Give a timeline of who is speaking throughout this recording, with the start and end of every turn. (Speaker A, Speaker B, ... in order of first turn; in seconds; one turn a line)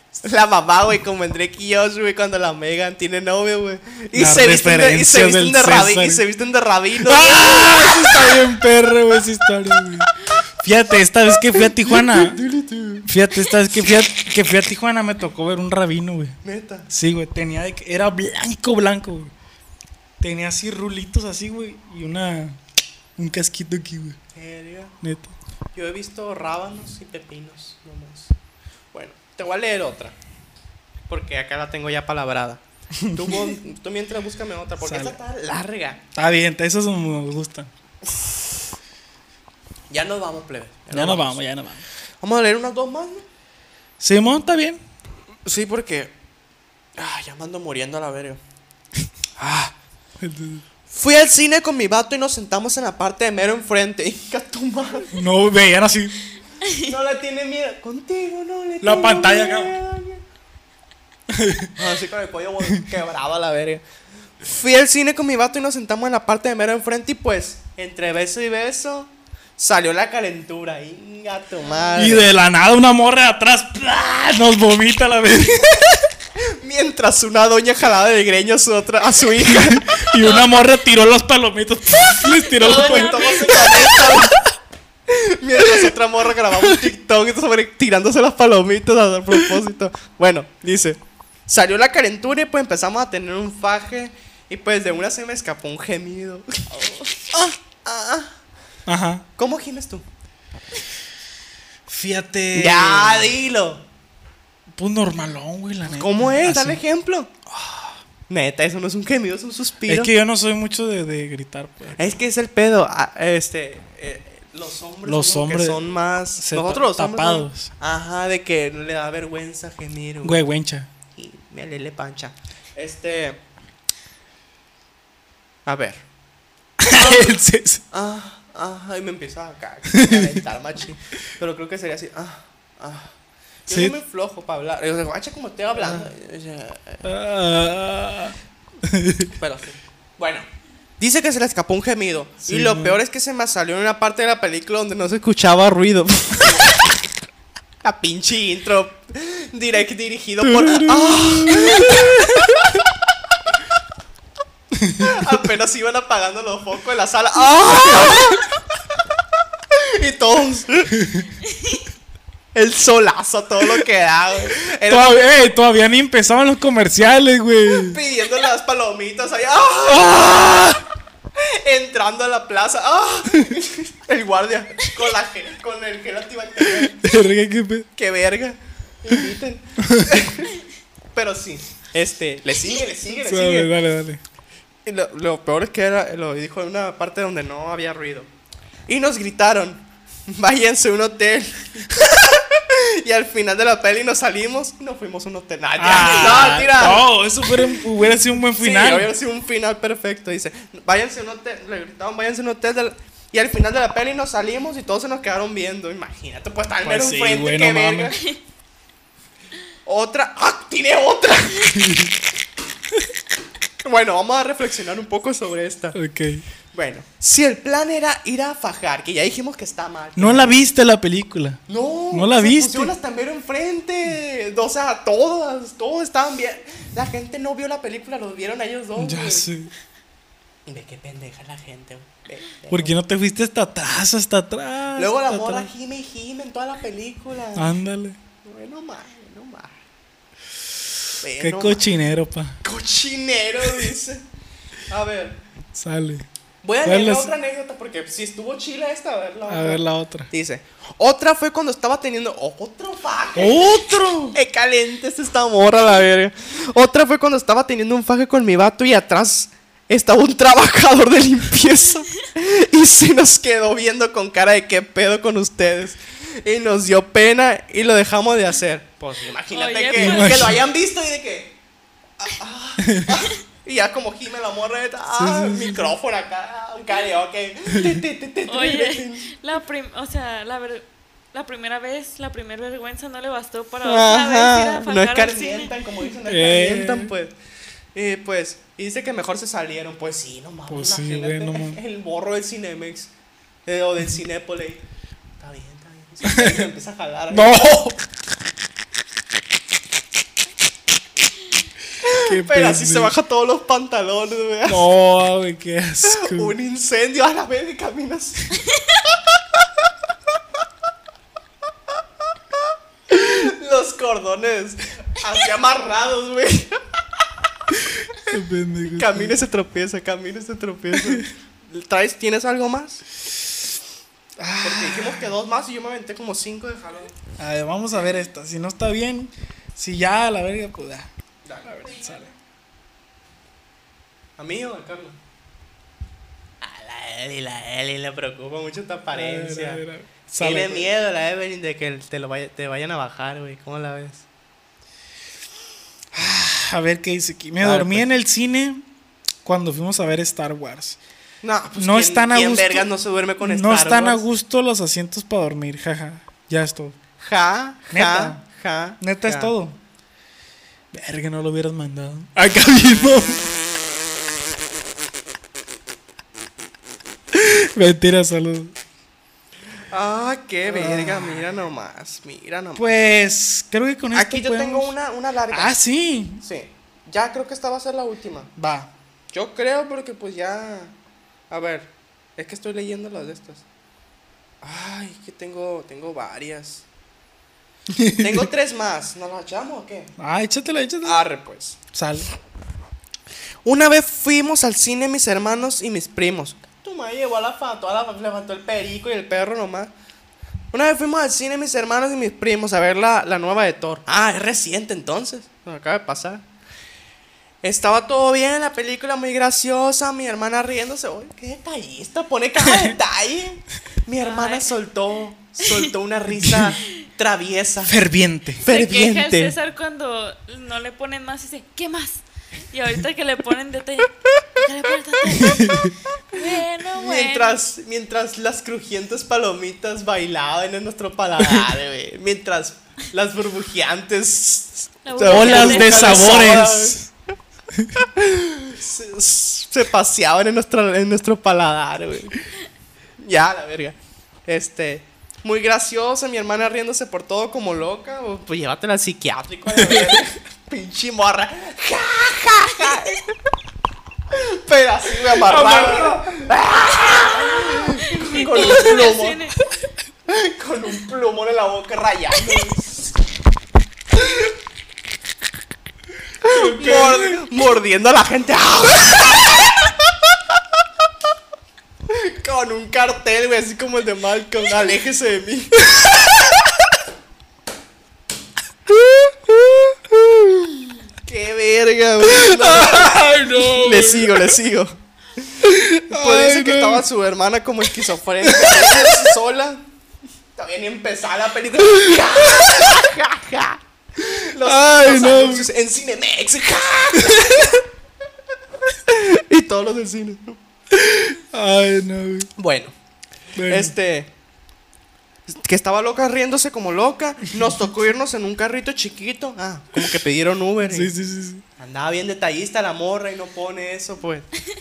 Speaker A: 0.2-8.5
Speaker B: 4.1-6.2
Speaker B: 7.0-12.4
Speaker A: 11.7-13.1
Speaker B: 13.0-16.4
Speaker A: 16.4-16.9
Speaker B: 16.9-19.3
Speaker B: 20.2-22.6
Speaker B: 23.2-24.2
Speaker A: 24.3-24.9
Speaker B: 25.0-25.3
Speaker A: 25.7-28.3
Speaker A: 28.9-30.1
Speaker A: 31.1-36.0
Speaker B: 33.0-33.5
Speaker B: 34.8-35.2
Speaker B: 36.1-37.7
Speaker A: 39.9-41.4
Speaker B: 40.9-41.8
Speaker A: 42.2-43.2
Speaker B: 44.0-44.8
Speaker A: 45.4-46.1
Speaker A: 47.0-48.4
Speaker A: 49.4-49.7
Speaker B: 50.2-50.6
Speaker A: 50.9-55.1
Speaker B: 55.1-56.2
Speaker A: 56.7-60.2
Speaker B: 58.8-59.8
Speaker B: 61.3-61.7
Speaker A: 61.7-63.8
Speaker A: 64.4-72.3
Speaker C: 71.7-72.1
Speaker B: 72.0-76.0
Speaker A: 76.6-79.9
Speaker B: 79.5-84.4
Speaker C: 80.2-80.5
Speaker C: 82.5-84.1
Speaker A: 82.6-84.3
Speaker A: 85.1-96.5
Speaker B: 85.6-85.9
Speaker C: 96.7-97.1
Speaker A: 97.3-98.3
Speaker B: 98.8-99.2
Speaker A: 99.4-100.0
Speaker B: 101.9-103.3
Speaker A: 102.5-103.8
Speaker B: 104.7-106.8
Speaker A: 105.8-107.3
Speaker B: 107.5-107.9
Speaker A: 108.3-110.1
Speaker B: 109.9-112.0
Speaker A: 112.0-120.4
Speaker B: 115.0-117.7
Speaker B: 120.2-120.9
Speaker A: 121.1-123.4
Speaker A: 125.7-126.0
Speaker B: 126.8-127.8
Speaker A: 126.9-127.3
Speaker A: 127.9-133.1
Speaker B: 129.9-130.4
Speaker A: 133.7-137.0
Speaker B: 133.7-133.9
Speaker B: 135.8-136.1
Speaker B: 137.0-139.3
Speaker A: 139.4-140.4
Speaker A: 141.0-146.8
Speaker B: 142.4-143.0
Speaker A: 147.8-152.8
Speaker B: 150.4-152.8
Speaker B: 154.8-155.3
Speaker A: 155.0-158.5
Speaker A: 159.7-160.9
Speaker B: 161.0-161.3
Speaker C: 161.5-161.8
Speaker A: 162.5-165.2
Speaker B: 164.9-168.0
Speaker A: 167.8-170.8
Speaker A: 171.4-177.0
Speaker B: 176.7-177.9
Speaker A: 177.9-180.6
Speaker B: 179.8-180.1
Speaker A: 181.1-183.7
Speaker B: 183.2-184.2
Speaker A: 184.8-188.3
Speaker A: 188.9-197.8
Speaker B: 195.8-199.1
Speaker A: 198.5-208.3
Speaker B: 206.8-208.1
Speaker A: 209.8-211.9
Speaker B: 211.7-212.1
Speaker A: 213.8-216.0
Speaker B: 215.9-216.4
Speaker A: 216.7-220.6
Speaker B: 220.2-221.6
Speaker A: 221.7-229.5
Speaker B: 222.1-222.9
Speaker B: 229.0-229.7
Speaker A: 230.7-232.9
Speaker B: 232.7-235.7
Speaker A: 234.9-237.7
Speaker B: 237.5-238.2
Speaker A: 238.4-239.7
Speaker A: 241.2-241.8
Speaker B: 241.4-242.6
Speaker A: 242.6-244.2
Speaker A: 244.9-245.4
Speaker B: 245.7-246.2
Speaker A: 246.6-253.7
Speaker B: 246.8-247.3
Speaker B: 249.5-250.3
Speaker B: 253.3-254.4
Speaker A: 254.3-271.6
Speaker C: 269.5-270.4
Speaker B: 269.9-270.6
Speaker A: 272.2-279.3
Speaker B: 272.8-273.2
Speaker B: 275.1-275.9
Speaker B: 277.7-278.0
Speaker C: 278.5-285.7
Speaker A: 283.8-287.3
Speaker B: 286.3-287.1
Speaker A: 287.9-293.1
Speaker B: 290.7-291.8
Speaker A: 293.6-294.8
Speaker A: 295.4-297.6
Speaker B: 296.2-296.7
Speaker B: 297.3-298.0
Speaker A: 302.0-304.8
Speaker B: 302.1-303.1
Speaker B: 304.7-306.5
Speaker A: 306.0-308.6
Speaker A: 313.1-316.8
Speaker B: 318.2-319.4
Speaker A: 318.9-323.0
Speaker B: 320.9-321.2
Speaker B: 324.4-325.3
Speaker A: 324.6-327.1
Speaker B: 327.4-331.1
Speaker A: 331.4-332.0
Speaker B: 331.6-332.3
Speaker A: 334.4-335.2
Speaker A: 336.6-339.8
Speaker B: 339.1-340.9
Speaker A: 340.4-344.2
Speaker B: 346.1-348.8
Speaker A: 347.6-348.0
Speaker B: 349.4-351.0
Speaker A: 351.4-354.2
Speaker B: 351.8-356.9
Speaker A: 357.2-359.5
Speaker B: 357.9-358.4
Speaker B: 359.0-359.8
Speaker B: 360.9-363.5
Speaker B: 367.3-368.7
Speaker A: 369.9-372.9
Speaker B: 370.6-371.5
Speaker B: 372.8-374.9
Speaker A: 374.1-375.8
Speaker B: 375.5-376.4
Speaker A: 376.4-378.5
Speaker B: 378.6-378.9
Speaker A: 379.3-380.9
Speaker A: 381.5-383.6
Speaker A: 384.6-386.9
Speaker B: 387.9-388.5
Speaker A: 388.1-390.1
Speaker B: 390.2-391.2
Speaker A: 391.0-391.8
Speaker B: 391.9-392.3
Speaker A: 393.6-399.9
Speaker A: 400.7-406.4
Speaker A: 407.6-418.0
Speaker B: 412.6-412.9
Speaker C: 414.2-414.7
Speaker C: 415.6-415.9
Speaker B: 416.4-416.8
Speaker B: 417.9-418.6
Speaker A: 418.6-419.5
Speaker C: 418.7-425.8
Speaker A: 425.3-437.0
Speaker B: 425.3-425.9
Speaker C: 426.3-427.6
Speaker C: 435.0-436.6
Speaker B: 435.2-437.1
Speaker A: 438.0-442.4
Speaker A: 443.2-453.3
Speaker B: 449.7-450.2
Speaker A: 454.3-459.4
Speaker B: 455.3-456.5
Speaker C: 458.1-459.6
Speaker A: 460.3-463.1
Speaker A: 464.1-464.5
Speaker A: 466.4-470.4
Speaker B: 466.4-467.4
Speaker A: 472.1-475.9
Speaker B: 475.9-476.7
Speaker B: 478.9-480.9
Speaker A: 481.2-484.9
Speaker B: 482.2-484.6
Speaker B: 485.6-487.1
Speaker A: 486.1-489.8
Speaker B: 488.4-489.3
Speaker A: 490.6-497.8
Speaker B: 494.2-495.7
Speaker B: 497.2-497.8
Speaker A: 499.0-500.6
Speaker B: 500.9-502.5
Speaker A: 502.6-502.9
Speaker B: 503.6-503.9
Speaker A: 503.6-504.3
Speaker A: 505.5-511.1
Speaker B: 510.8-511.6
Speaker A: 511.8-514.5